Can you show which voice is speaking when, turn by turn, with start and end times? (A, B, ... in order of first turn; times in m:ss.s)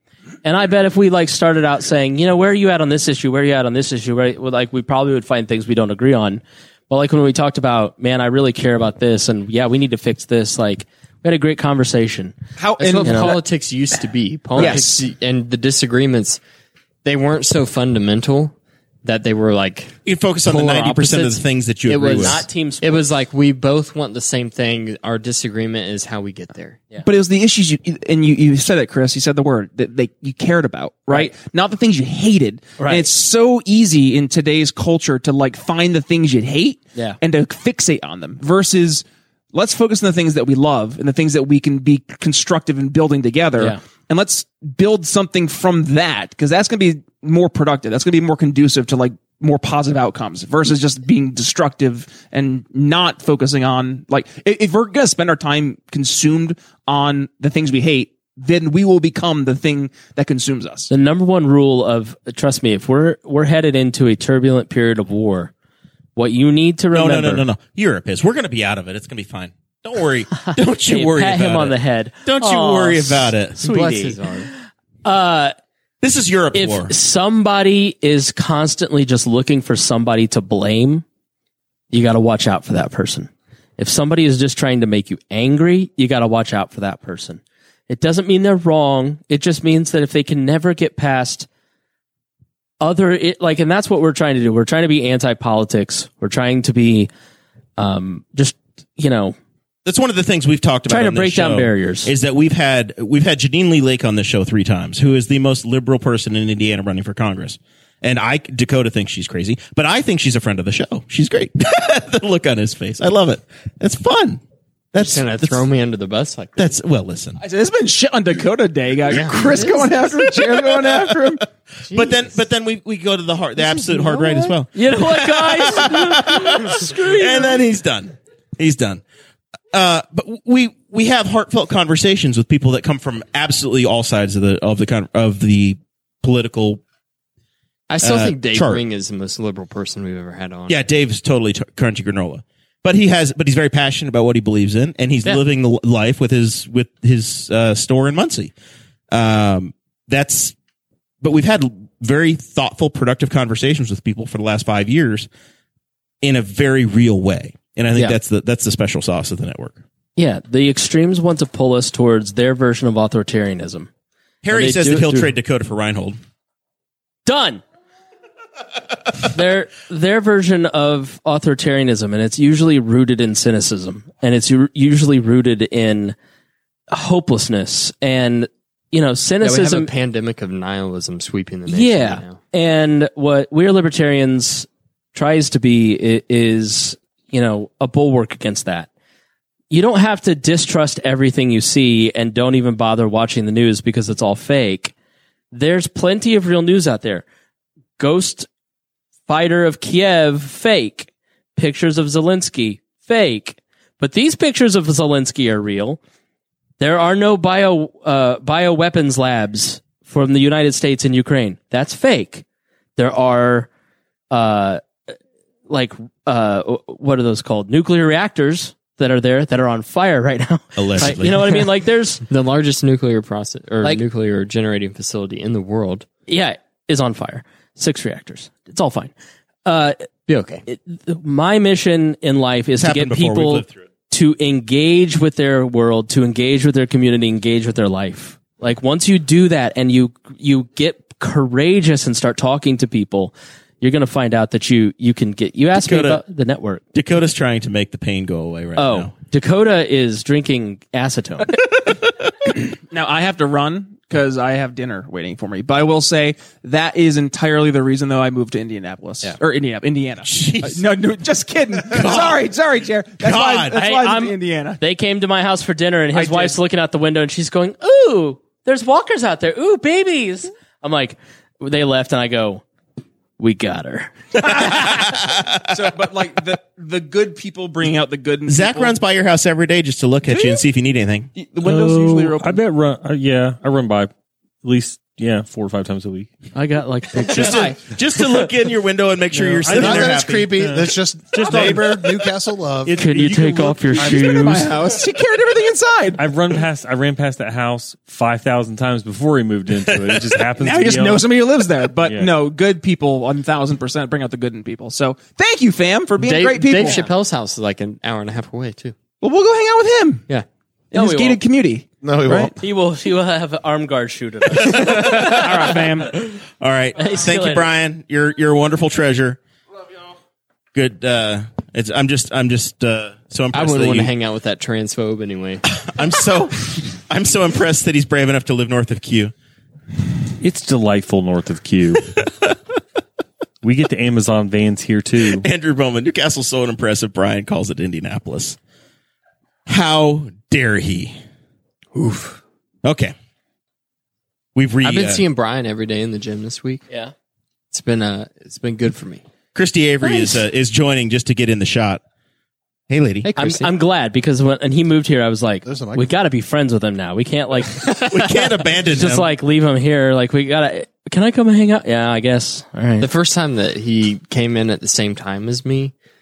0:00.4-0:12.3 A
0:12.6-0:13.4 B
0:12.8-0:16.4 C
0:13.0-0:13.4 A
0:14.6-0:15.0 B
0:14.6-0:14.8 A
0:17.0-0:18.5 C
0:19.0-0:26.8 C
0:20.0-0:22.4 D
0:22.1-0:23.1 A
0:27.0-1:00.9 B
0:32.8-0:33.1 A
1:00.9-1:05.5 A
1:06.2-1:07.4 A
1:06.9-1:13.6 D
1:10.4-1:14.5 A
1:13.6-1:14.5 C
1:15.0-1:15.5 A
1:16.0-1:16.9 D
1:16.5-1:21.0 A
1:21.9-1:31.5 A
1:32.8-1:37.1 A
1:37.8-1:39.4 A
1:39.8-1:54.4 D
1:40.9-1:42.1 A
1:54.9-1:55.6 D
1:55.0-1:56.7 C
1:56.6-1:57.4 D
1:57.4-2:01.4 B
1:59.1-2:00.0 C
2:01.9-2:02.4 C
2:01.9-2:09.0 D
2:03.7-2:04.5 C
2:04.7-2:07.5 A
2:09.7-2:16.8 D
2:17.9-2:20.8 C
2:18.0-2:18.8 D
2:20.7-2:28.5 D
2:29.1-2:30.5 D
2:31.2-2:35.3 D
2:36.2-2:39.8 D
2:40.2-2:43.9 A
2:44.4-2:46.2 D
2:44.5-2:45.3 A
2:47.2-2:47.6 A
2:49.2-2:56.2 A
2:56.9-2:59.9 A
2:59.4-3:02.4 C
3:01.7-3:08.9 A
3:09.7-3:14.9 A
3:15.5-3:17.2 A
3:18.0-3:18.5 A
3:19.3-3:26.0 A
3:26.8-3:32.4 A
3:33.0-3:33.7 A
3:34.3-3:35.1 A
3:35.7-3:42.2 A
3:40.8-3:41.5 D
3:42.3-3:46.0 C
3:46.3-3:49.1 A
3:49.6-3:50.0 A
3:50.3-3:50.6 C
3:50.6-4:06.8 A
3:52.8-3:53.7 D
4:05.7-4:06.2 D
4:06.9-4:09.1 D
4:08.8-4:11.5 A
4:12.6-4:24.8 B
4:20.2-4:20.8 D
4:21.9-4:22.4 D
4:23.2-4:23.8 D
4:23.7-4:32.6 A
4:26.1-4:26.6 B
4:33.4-4:35.0 A
4:34.4-4:35.7 D
4:35.7-4:39.0 B
4:38.5-4:41.3 D
4:40.3-4:40.6 B
4:41.4-4:42.6 B
4:41.6-4:44.1 E
4:44.6-4:46.3 E
4:46.5-4:47.7 A
4:47.3-4:50.7 D
4:47.3-4:47.8 B
4:49.3-4:49.7 A
4:49.6-4:52.0 E
4:49.7-4:53.0 F
4:52.9-4:54.7 A
4:53.2-4:56.2 B
4:56.2-5:01.3 E
5:00.6-5:07.0 B
5:02.0-5:02.3 E
5:06.2-5:08.9 C
5:06.8-5:07.1 A
5:09.2-5:10.2 B
5:10.9-5:12.5 B
5:10.9-5:11.4 A
5:12.0-5:12.5 F
5:12.6-5:15.7 A
5:14.5-5:15.5 D
5:14.9-5:16.1 B
5:16.6-5:19.4 D
5:17.0-5:17.7 A
5:20.7-5:24.1 D
5:23.5-5:25.6 C
5:25.7-5:29.3 D
5:30.4-5:32.1 E
5:33.6-5:35.4 E
5:35.4-5:38.6 D
5:39.7-5:41.2 D
5:41.9-5:42.4 C
5:42.8-5:43.1 D
5:44.6-5:45.2 D
5:44.8-5:46.8 C
5:47.7-5:49.2 C
5:49.5-5:52.0 D
5:52.9-5:53.3 D
5:53.2-5:53.7 C
5:53.4-5:58.1 A
5:55.6-5:56.1 F
5:58.1-5:59.3 D
5:58.9-6:03.1 A
6:03.0-6:05.9 C